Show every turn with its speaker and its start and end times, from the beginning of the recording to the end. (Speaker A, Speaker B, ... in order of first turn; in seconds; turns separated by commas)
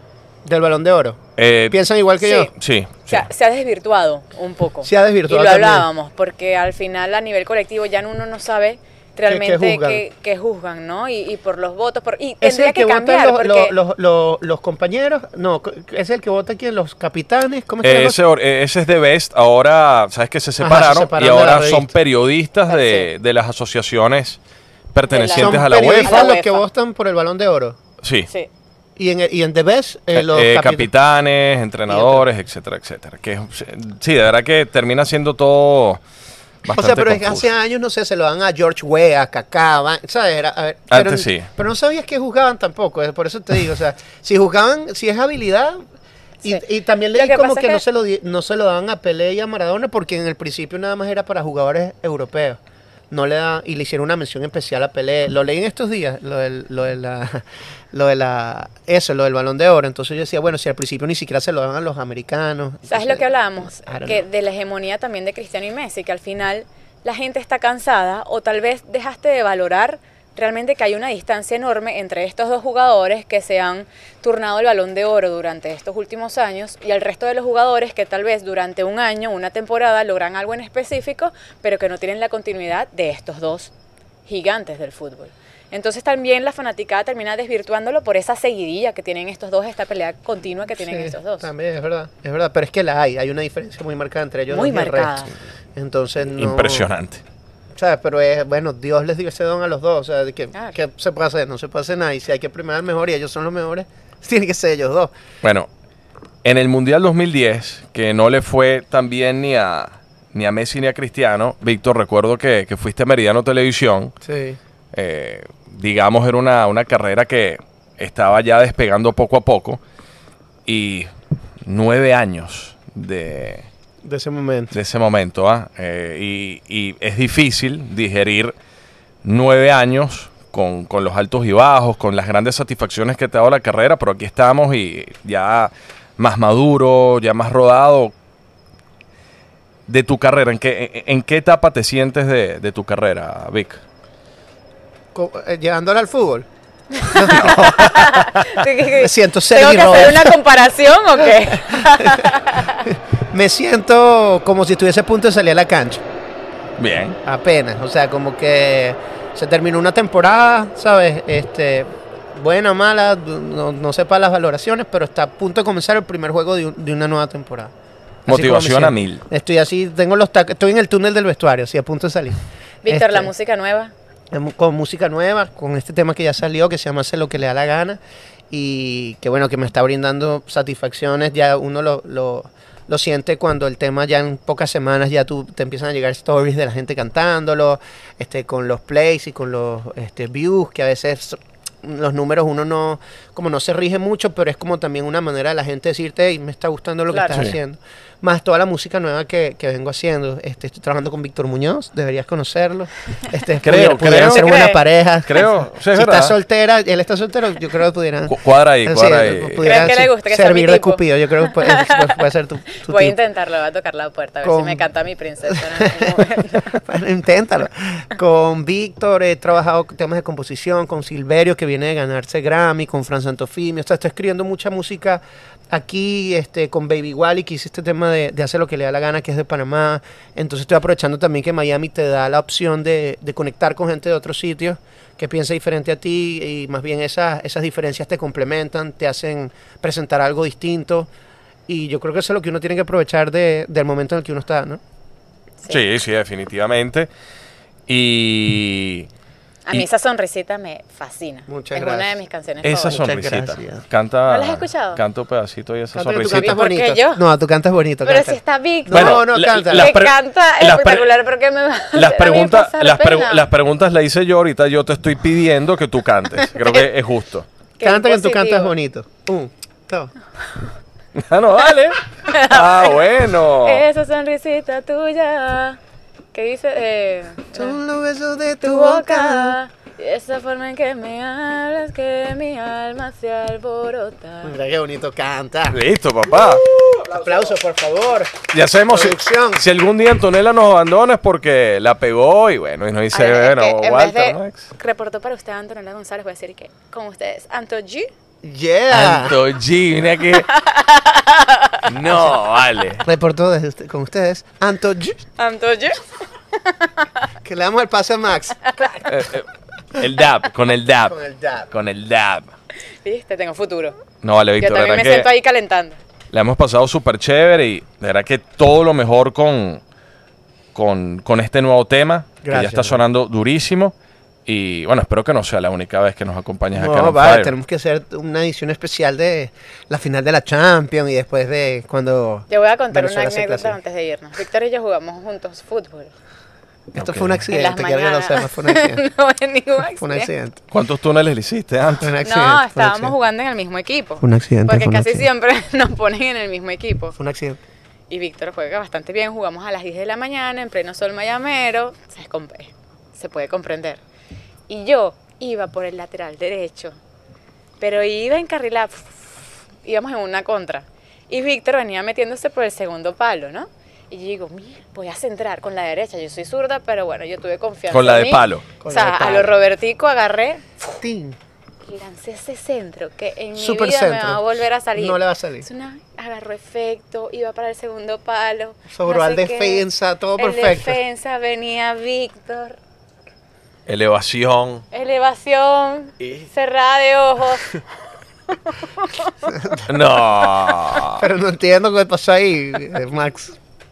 Speaker A: 0.4-2.5, Speaker B: 1.4-1.8, Speaker C: 2.2-2.5, Speaker B: 2.5-3.2, Speaker C: 3.1-13.7, Speaker A: 4.8-5.9, Speaker A: 9.3-10.0, Speaker A: 12.4-18.2, Speaker B: 17.8-24.4, Speaker A: 20.6-21.9, Speaker C: 22.7-23.1, Speaker B: 24.9-26.3, Speaker C: 25.1-26.6, Speaker A: 25.3-27.8, Speaker B: 28.0-28.3, Speaker A: 28.9-30.9, Speaker B: 30.1-36.0, Speaker A: 31.9-32.2, Speaker B: 36.6-37.5, Speaker A: 36.7-45.8, Speaker B: 40.9-41.5, Speaker A: 46.4-52.6, Speaker C: 46.4-47.8, Speaker A: 53.1-64.3, Speaker C: 62.9-83.7, Speaker C: 84.3-91.5, Speaker A: 90.8-96.9, Speaker C: 94.5-95.3, Speaker B: 96.4-97.2, Speaker A: 97.7-105.1, Speaker B: 105.4-105.7, Speaker B: 106.4-114.1, Speaker A: 114.2-114.6, Speaker B: 114.9-119.8, Speaker B: 120.7-121.1, Speaker B: 121.6-123.7, Speaker A: 124.0-124.7, Speaker B: 124.7-128.5, Speaker B: 129.2-138.1, Speaker B: 139.9-143.8, Speaker A: 145.1-146.5, Speaker C: 146.9-152.8, Speaker A: 147.1-147.6, Speaker B: 147.2-148.4, Speaker A: 148.9-150.4, Speaker A: 151.5-152.3, Speaker A: 152.8-156.0, Speaker B: 156.8-157.2, Speaker A: 157.2-167.7, Speaker A: 168.2-173.3, Speaker B: 168.3-169.2, Speaker C: 172.8-173.9, Speaker A: 174.3-178.0, Speaker A: 178.5-213.2, Speaker C: 197.1-197.4, Speaker B: 203.6-204.6, Speaker C: 204.0-204.8, Speaker B: 205.2-206.3, Speaker B: 208.3-209.9, Speaker C: 209.6-212.2, Speaker C: 212.8-216.8, Speaker A: 214.4-214.8, Speaker A: 215.5-241.1, Speaker A: 241.7-244.8, Speaker B: 245.7-247.1, Speaker B: 247.9-249.1, Speaker C: 249.7-253.1, Speaker A: 251.5-252.2, Speaker B: 252.6-256.6, Speaker A: 252.9-253.8, Speaker C: 254.3-255.0, Speaker A: 255.9-260.0, Speaker C: 256.3-257.2, Speaker C: 258.0-263.4, Speaker B: 258.9-261.1, Speaker B: 261.9-267.5, Speaker C: 266.4-266.8, Speaker C: 267.8-268.7, Speaker A: 267.8-270.1, Speaker B: 271.1-273.8, Speaker C: 272.2-275.8, Speaker C: 276.3-277.8, Speaker A: 277.5-279.6, Speaker C: 278.6-284.5, Speaker A: 284.4-285.8, Speaker B: 285.7-286.6, Speaker A: 286.9-289.6, Speaker B: 288.5-294.7, Speaker C: 293.1-298.1, Speaker A: 298.4-299.4, Speaker B: 298.9-300.5, Speaker C: 300.4-301.9, Speaker B: 301.9-303.1, Speaker A: 303.0-305.2, Speaker C: 305.4-306.0, Speaker C: 306.5-307.3, Speaker A: 307.4-309.1, Speaker B: 309.0-311.2, Speaker A: 311.1-311.7, Speaker B: 311.7-312.5, Speaker C: 313.0-314.0, Speaker B: 314.2-315.3, Speaker C: 314.6-316.0, Speaker B: 316.3-319.8, Speaker B: 320.7-323.9, Speaker A: 322.4-323.0, Speaker B: 324.4-327.5, Speaker A: 326.7-333.8, Speaker C: 332.5-336.1, Speaker A: 336.9-339.0, Speaker B: 336.9-337.4, Speaker C: 337.5-340.3, Speaker A: 340.0-340.6, Speaker B: 340.7-342.1, Speaker A: 342.0-343.1, Speaker C: 342.2-347.2, Speaker A: 344.2-345.2, Speaker A: 347.2-347.6, Speaker C: 348.1-354.0, Speaker C: 354.7-357.0, Speaker C: 357.8-370.6, Speaker B: 367.9-368.7, Speaker A: 368.8-369.5, Speaker A: 371.0-371.4, Speaker C: 371.9-379.8, Speaker A: 373.5-375.7, Speaker A: 378.9-381.0, Speaker C: 380.4-382.8, Speaker B: 383.9-384.8, Speaker C: 384.9-387.8, Speaker B: 386.2-386.5, Speaker C: 388.5-389.6, Speaker A: 389.5-389.9, Speaker B: 389.9-391.2, Speaker A: 391.1-393.6